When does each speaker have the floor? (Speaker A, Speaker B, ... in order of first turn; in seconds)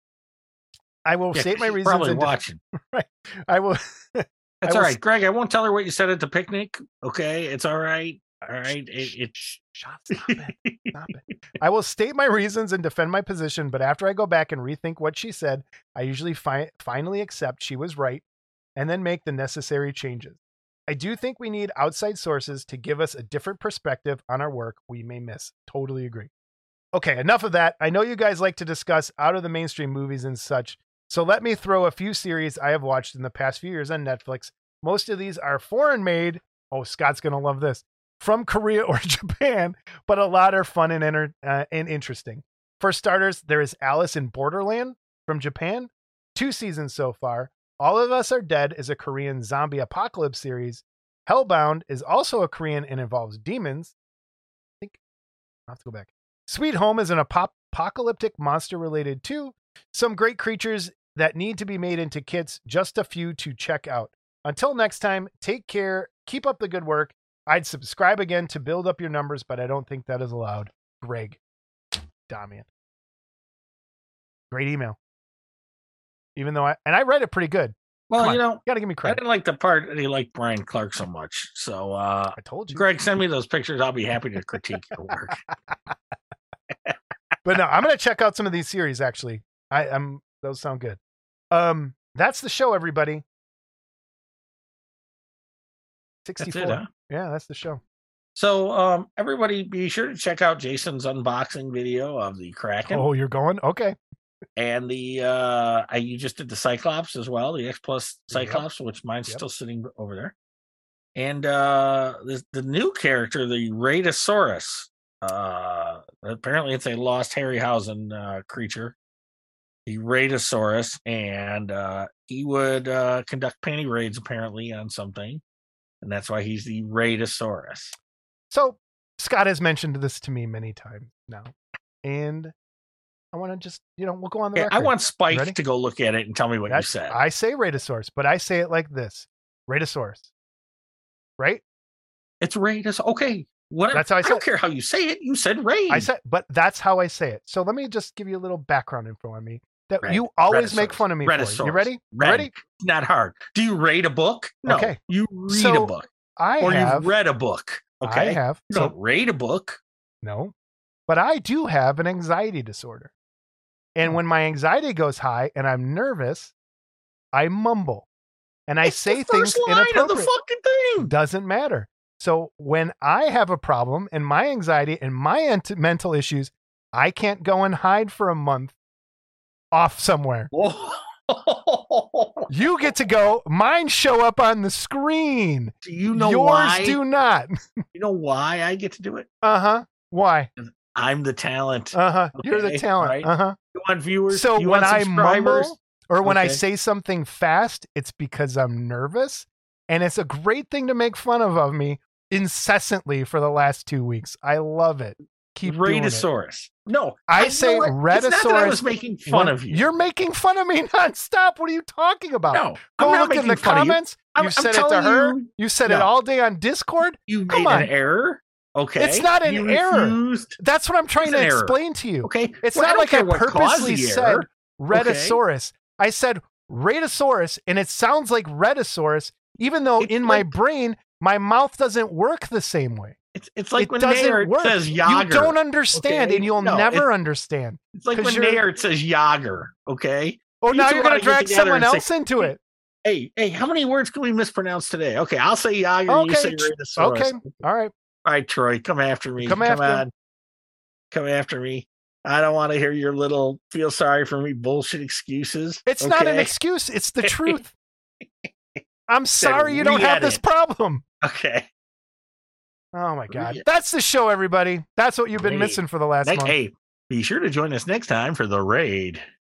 Speaker A: 1.1-5.0, 9.4-18.2, 18.8-26.3, 26.9-53.9, 55.7-71.4, 72.3-72.7, 74.5-75.0, 76.4-79.2, 82.4-82.8, 87.4-91.0, 91.5-93.2, 96.2-97.8, 102.9-104.0, 108.3-108.7, 128.5-132.5, 133.3-135.6, 136.7-140.3, 143.9-144.4, 145.9-152.5, 154.7-155.0, 155.5-157.1, 158.1-158.9, 160.2-160.5, 161.1-163.1, 164.0-166.5, 167.3-168.1, 168.7-170.3, 171.0-178.8, 179.7-180.5, 182.5-187.8, 189.4-190.5, 191.9-193.6, 194.3-206.3, 207.3-217.9, 219.0-233.2, 233.8-238.6, 240.6-242.6, 246.1-247.9, 249.4-250.1, 255.9-257.7, 259.1-261.0, 262.9-266.6
Speaker B: 1.3-2.6, 4.6-9.6, 10.1-11.1, 78.1-85.4, 96.4-96.9, 98.3-103.0, 104.6-110.3, 111.2-119.0, 119.9-125.4, 126.0-128.0, 134.6-137.2, 142.4-146.1, 150.1-156.1, 156.6-159.8, 168.8-171.1, 180.5-182.9, 185.8-187.0, 187.9-189.3, 190.6-196.6, 205.6-209.9, 212.5-216.1, 217.3-220.6, 221.2-225.4, 230.0-230.5, 233.3-237.1, 237.9-247.6, 248.2-250.1, 251.1-256.5, 257.2-257.6, 258.2-258.8, 259.4-260.4, 261.2-261.7, 263.3-263.6, 265.4-269.2